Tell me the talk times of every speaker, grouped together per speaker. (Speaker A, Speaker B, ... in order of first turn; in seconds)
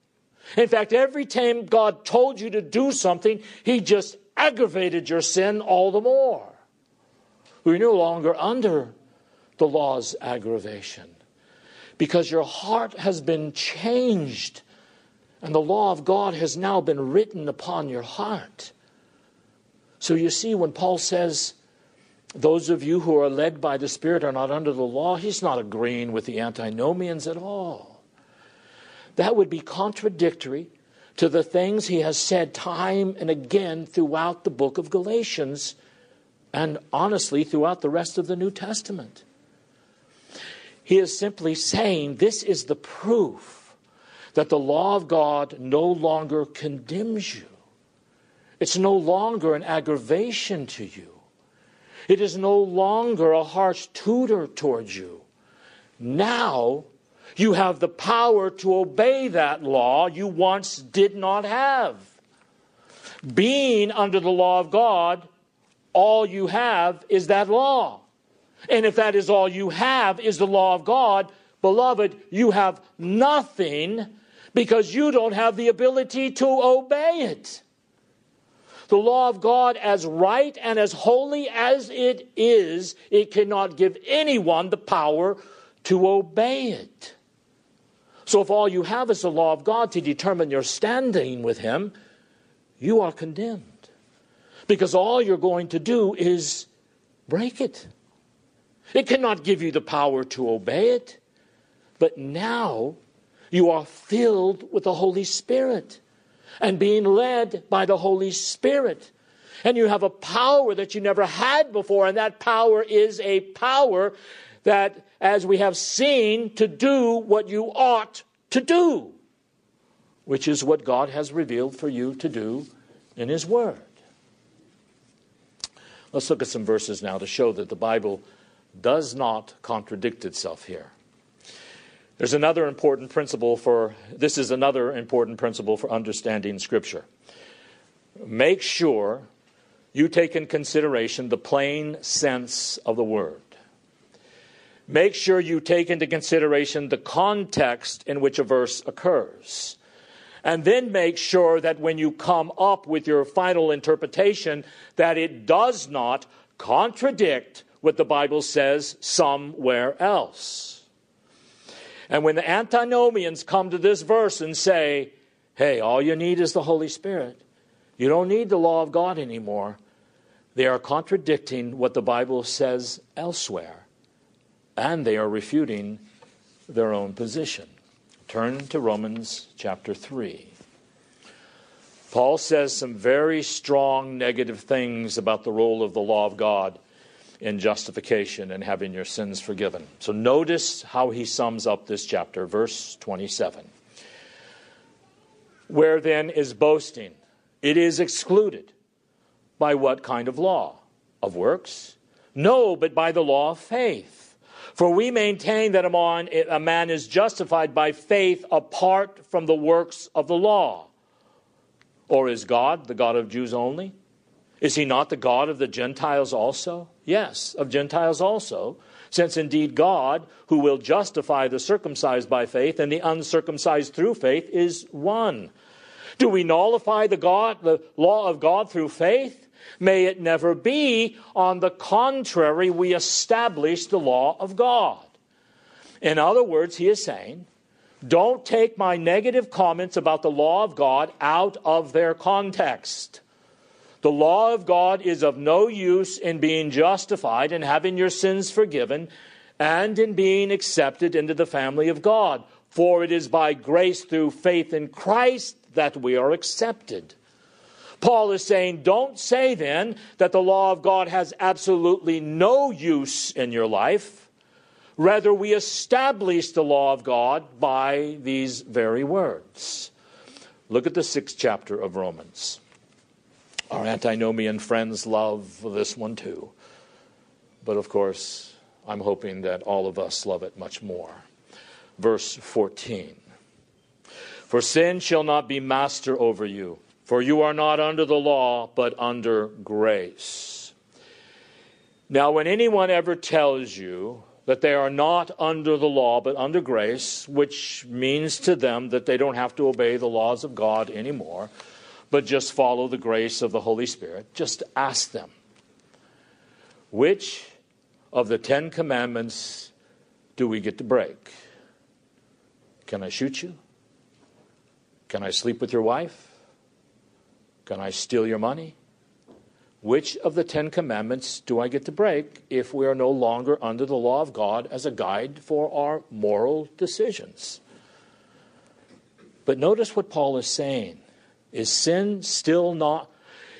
Speaker A: 0.6-6.5, 7.6-8.9, 9.6-11.1, 12.0-14.6, 15.4-18.7, 20.0-21.6, 22.4-28.0, 29.2-35.8, 36.5-39.2, 40.9-43.7, 44.4-47.5, 48.6-51.2, 52.1-55.2, 56.0-62.1, 63.3-65.3, 65.9-68.0, 68.7-77.6, 78.9-87.2, 88.3-91.9, 92.8-93.8, 94.7-96.7, 97.3-97.9, 98.9-101.2, 102.0-103.0, 103.5-106.0, 106.6-109.1, 109.6-119.2, 120.3-123.9, 126.1-130.9, 132.2-137.1, 138.2-139.3, 139.9-143.5, 144.9-149.8, 150.4-160.8, 162.1-167.4, 168.0-169.8, 170.6-173.8, 174.8-176.0, 176.7-177.7, 178.3-180.5, 182.1-186.8, 187.4-193.7, 195.7-198.7, 199.6-210.9, 212.1-213.9, 214.6-225.5, 226.2-235.1, 236.0-237.5, 238.0-243.2, 244.0-257.1, 258.0-264.3, 265.0-269.9, 270.7-272.6, 273.7-276.5, 277.6-281.2, 282.0-283.2, 284.5-290.7, 292.1-301.5, 302.1-305.3, 306.9-307.5, 308.1-309.7, 310.4-311.3, 312.9-313.6, 315.1-316.3, 317.7-318.8, 319.8-327.6, 329.5-331.0, 331.5-333.1